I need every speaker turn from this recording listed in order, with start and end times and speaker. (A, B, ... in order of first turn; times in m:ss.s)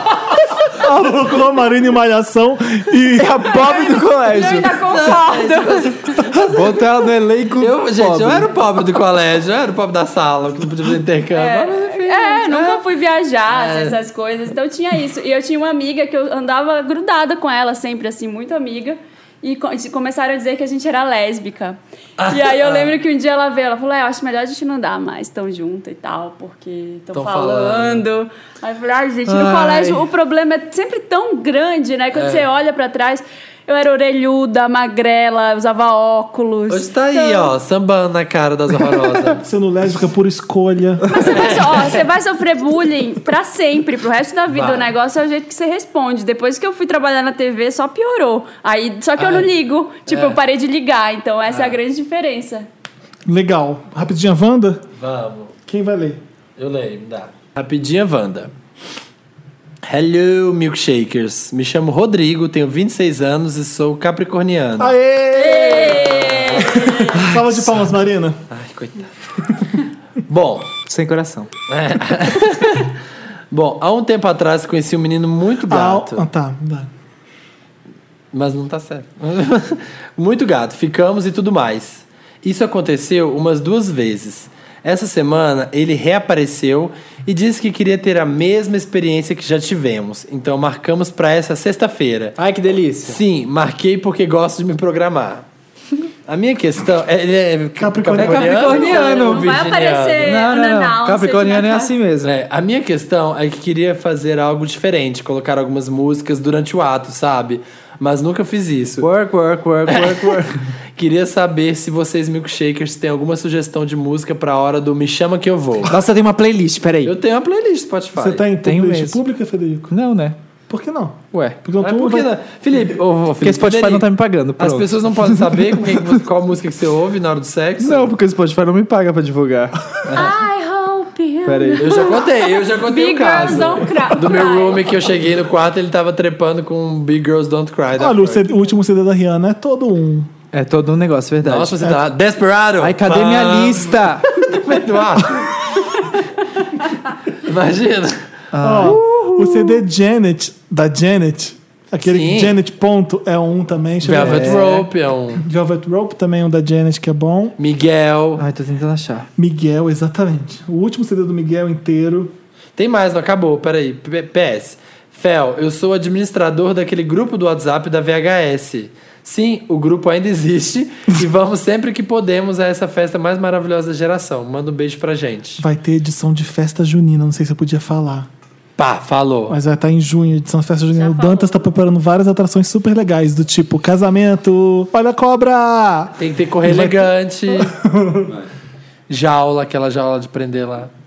0:00.7-0:03.5 A
0:03.1-0:04.8 B
0:03.5-0:06.1 C
0:04.8-0:07.0 D
0:06.3-0:08.5 B
0:07.6-0:12.8 D
0:11.3-0:37.5 C
0:13.5-0:14.0 D
0:22.2-0:22.9 D
0:27.1-0:28.0 D
0:29.5-0:30.0 D
0:32.1-0:32.4 D
0:36.7-0:39.4 D
0:39.4-0:41.5 A
0:41.1-0:52.7 C
0:41.2-0:42.0 D
0:44.5-0:44.9 D
0:49.2-0:49.5 D
0:50.1-0:50.4 D
0:51.5-0:51.8 D
0:53.3-0:54.8 A
0:55.0-0:55.5 D
0:55.7-0:56.2 A
0:56.6-0:58.5 D
0:59.8-1:04.9 D
1:04.8-1:08.4 A
1:05.3-1:07.2 C
1:05.8-1:07.6 D
1:08.5-1:09.1 D
1:10.3-1:10.7 D
1:10.9-1:11.5 B
1:11.7-1:13.0 D
1:13.5-1:16.2 D
1:15.6-1:16.9 A
1:18.3-1:32.4 D
1:32.4-1:33.2 B
1:33.0-1:35.4 D
1:36.3-1:40.3 D
1:37.8-1:38.7 A
1:38.1-1:39.5 B
1:38.6-1:41.9 C
1:40.2-1:42.3 B
1:42.2-1:49.1 D
1:49.0-1:50.6 B
1:49.9-1:50.4 D
1:50.9-1:56.0 D
1:55.9-1:57.1 B
1:57.0-1:58.4 D
1:58.1-1:59.9 A
1:58.6-1:59.2 B
1:59.9-2:00.4 B
2:00.7-2:02.3 A
2:01.3-2:01.6 B
2:01.8-2:04.0 D
2:03.4-2:06.2 B
2:04.6-2:08.1 D
2:07.8-2:09.8 B
2:10.1-2:10.4 D
2:10.1-2:14.9 C
2:11.4-2:12.2 B
2:11.8-2:18.6 D
2:18.0-2:20.3 A
2:20.5-2:21.9 B
2:21.4-2:26.2 D
2:22.8-2:24.4 B
2:27.3-2:28.2 D
2:28.5-2:29.8 B
2:28.6-2:34.8 A
2:32.0-2:32.6 D
2:34.0-2:35.4 D
2:34.0-2:34.9 B
2:35.4-2:37.6 A
2:37.6-2:38.4 D
2:38.4-2:39.3 B
2:39.4-2:42.3 A
2:42.8-2:55.6 D
2:55.6-2:58.3 A
2:58.8-2:59.6 D
2:59.5-3:08.3 A
3:00.9-3:01.7 C
3:06.2-3:07.7 D
3:09.1-3:10.9 D